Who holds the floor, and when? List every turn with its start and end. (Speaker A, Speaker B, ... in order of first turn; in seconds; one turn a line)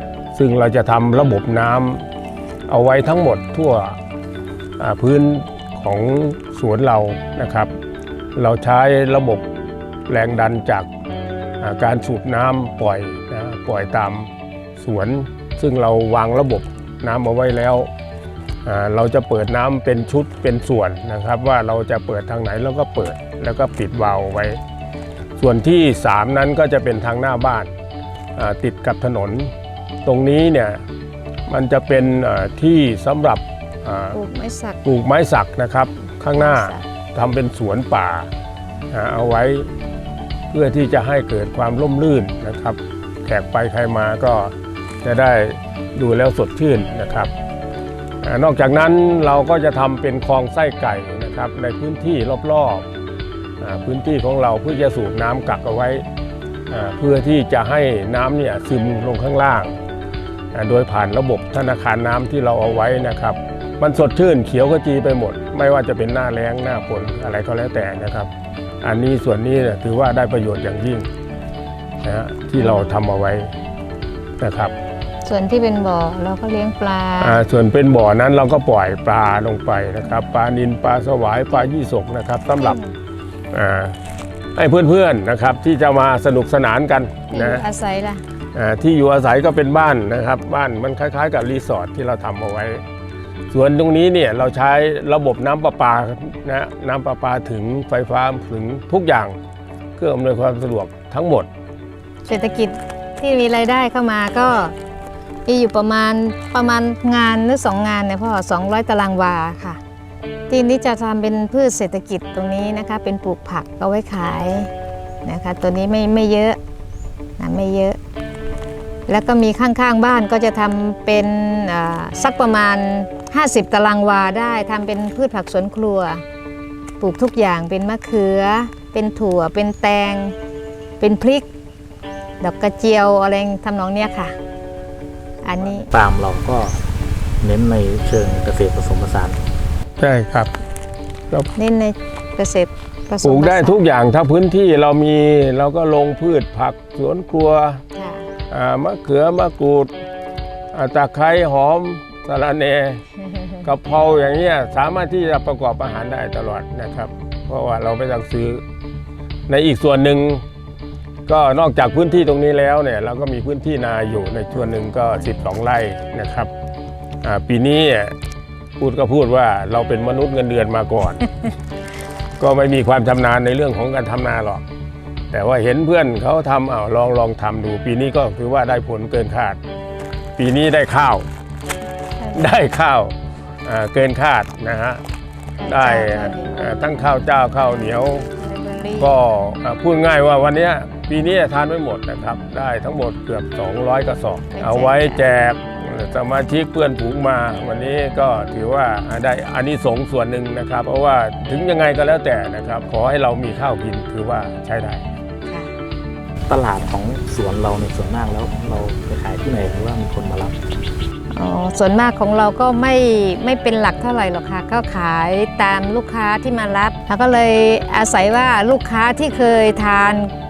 Speaker A: 0.3-2.0
Speaker A: 2.7-4.0
Speaker A: 4.8-7.7
Speaker A: 8.3-9.5
Speaker A: 10.1-10.9
Speaker A: 11.6-17.9
Speaker A: 18.6-24.6
Speaker A: 25.4-27.7
Speaker A: 28.4-29.5
Speaker A: 30.0-30.8
Speaker A: 31.5-34.2
Speaker B: 34.1-34.8
Speaker A: 34.8-38.3
Speaker B: 36.4-36.8
Speaker A: 38.9-39.7
Speaker A: 40.5-47.3
Speaker A: 48.2-52.9
Speaker A: 53.6-56.0
Speaker A: 56.7-59.8
Speaker A: 60.5-68.3
Speaker A: 68.8-71.1
Speaker A: 72.0-73.5
Speaker A: 74.4-74.7
Speaker B: 75.2-77.4
Speaker A: 77.2-82.8
Speaker B: 82.5-82.9
Speaker A: 83.5-84.0
Speaker A: 84.5-87.6
Speaker B: 87.3-88.2
Speaker A: 88.5-92.8
Speaker A: 93.5-99.4
Speaker A: 100.0-101.5
Speaker B: 102.2-104.7
Speaker B: 105.5-109.8
Speaker B: 110.5-114.7
Speaker B: 115.2-116.6
Speaker B: 117.4-118.0
Speaker B: 119.1-126.2
Speaker B: 127.0-130.3
Speaker B: 131.0-131.5
Speaker B: 132.4-134.3
Speaker B: 135.4-135.9
Speaker C: 135.7-136.9
Speaker C: 137.4-139.5
Speaker A: 140.0-140.5
Speaker B: 141.6-143.8
Speaker A: 143.2-147.8
Speaker B: 147.9-148.3
Speaker A: 148.5-149.9
Speaker A: 150.7-153.0
Speaker A: 153.6-158.6
Speaker A: 159.5-160.4
Speaker A: 161.3-166.5
Speaker A: 167.2-168.1
Speaker A: 168.8-171.3
Speaker A: 172.4-174.6
Speaker A: 175.3-179.6
Speaker A: 180.3-181.3
Speaker B: 182.2-182.6
Speaker A: 182.3-185.0
Speaker B: 185.6-186.7
Speaker A: 185.7-188.3
Speaker B: 188.4-189.2
Speaker A: 189.0-205.1
Speaker B: 194.5-195.2
Speaker C: 206.5-210.6
Speaker B: 211.3-220.3